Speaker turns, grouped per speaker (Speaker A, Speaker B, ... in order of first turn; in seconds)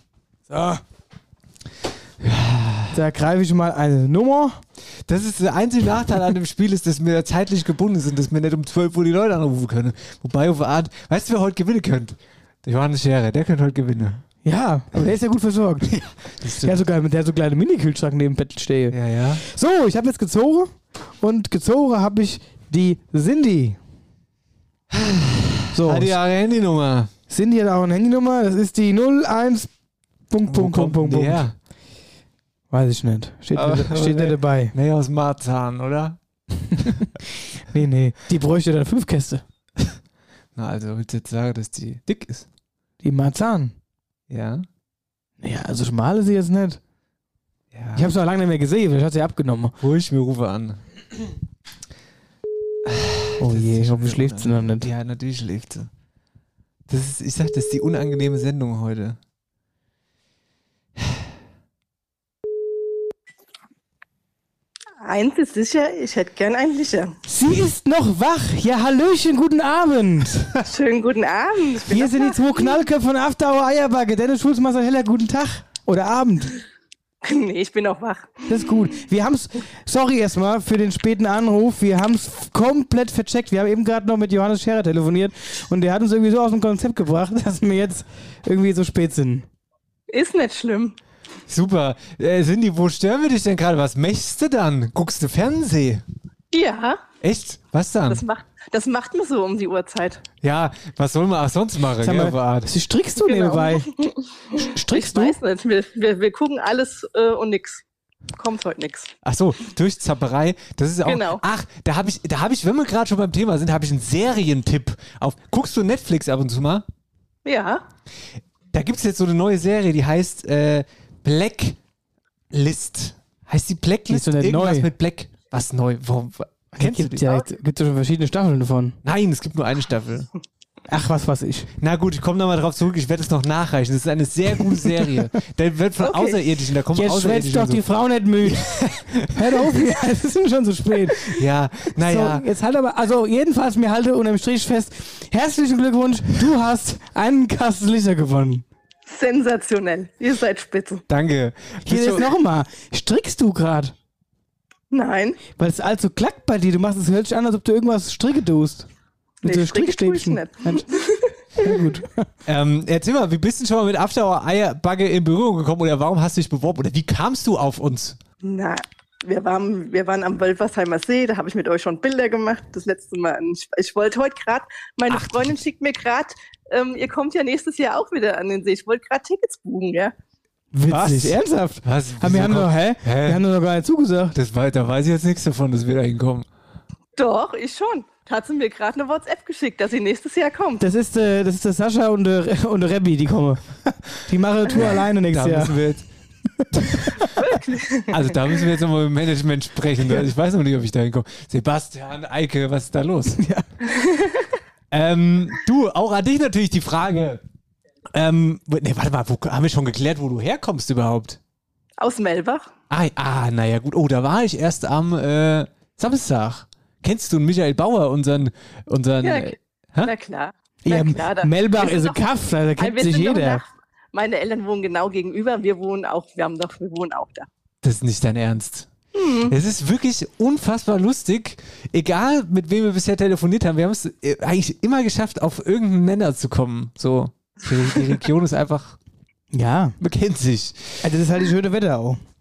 Speaker A: 0.5-0.8, 2.9-4.6, 14.4-15.9, 16.6-23.8, 25.7-26.1, 27.3-29.7, 30.3-31.4, 32.7-34.7, 37.7-39.4, 43.0-43.7, 45.4-46.8, 47.9-49.7, 53.4-54.9, 67.3-70.6, 71.9-76.5, 78.5-89.5, 102.0-103.9, 104.7-105.4, 124.1-124.9, 126.8-129.0, 130.9-131.7, 136.9-138.7, 139.3-141.3, 142.1-148.6, 151.9-153.9, 155.6-158.8, 159.4-160.8, 161.6-162.1, 180.7-184.3, 190.8-193.7, 194.2-195.7, 203.3-203.6, 220.8-223.6, 239.5-239.9, 241.0-242.2
Speaker B: 2.2-2.9, 5.0-14.2, 15.9-16.8, 18.9-19.4, 24.9-27.1, 30.5-31.5, 33.5-36.2, 40.5-42.5, 44.3-44.6, 47.7-48.1, 49.8-50.8, 52.9-55.9, 56.9-59.2, 91.5-96.0, 97.2-98.2, 100.4-102.7, 109.2-116.8, 118.7-121.8, 122.5-127.4, 129.0-130.3, 131.8-137.8, 138.4-139.3, 141.3-142.4, 151.1-152.3, 162.4-168.2, 175.1-175.7, 180.9-183.4, 184.3-186.5, 194.8-196.1, 196.7-197.0, 198.1-203.4, 204.9-207.4, 208.1-211.4, 212.9-220.1, 227.8-228.9, 229.4-238.9, 240.0-241.0
Speaker C: 65.0-67.1, 70.7-72.4, 77.2-78.3, 90.1-90.9, 96.5-97.0, 98.1-100.2, 103.2-103.8, 104.9-107.8, 108.3-109.1, 111.0-111.4, 117.4-117.8, 149.1-151.0, 154.9-155.4, 159.4-161.0, 168.4-180.1, 187.2-190.8, 197.4-198.0, 212.0-212.7, 219.2-222.2, 222.8-227.5, 229.2-229.5